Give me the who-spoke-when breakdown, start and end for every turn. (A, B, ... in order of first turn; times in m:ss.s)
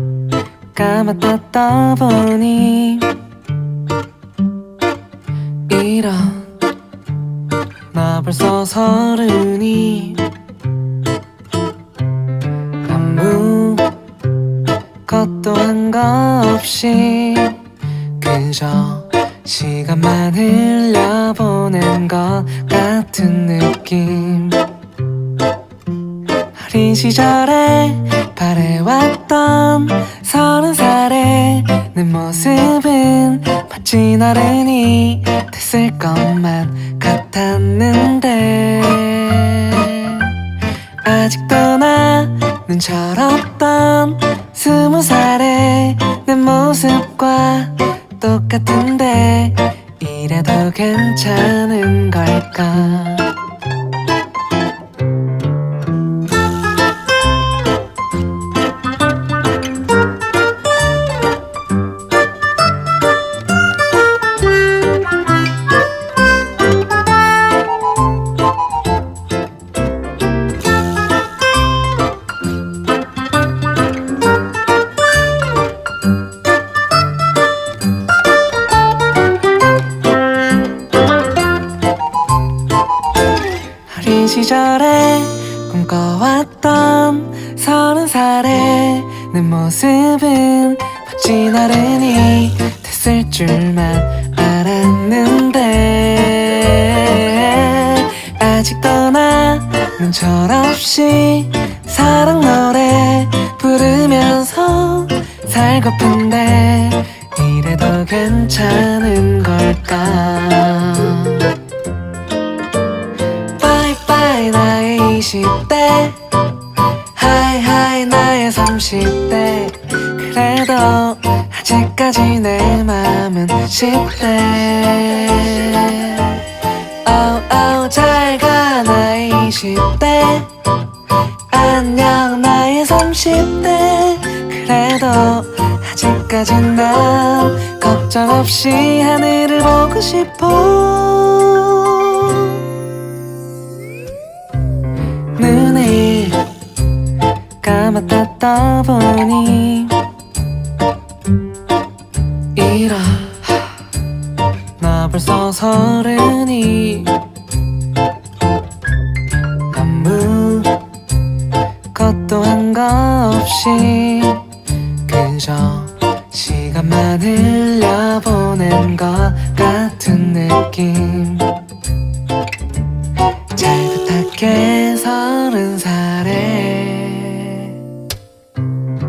0:00.7-0:03.2 A
0:05.7-0:06.6 A
0:07.9-0:10.4 A
0:12.8-0:14.0 A
0:15.0-0:24.8 A
0:26.5-0:40.5 A
0:41.0-0:53.4 A
1:23.9-1:51.6 A
1:53.6-1:56.4 A
1:57.1-2:10.6 A
2:11.5-2:22.7 A
2:25.3-2:26.6 A
2:27.6-2:30.1 A
2:32.5-2:33.9 A
2:34.8-2:37.3 A
2:39.6-2:40.9 A
2:41.9-2:51.6 A
2:53.5-2:57.9 A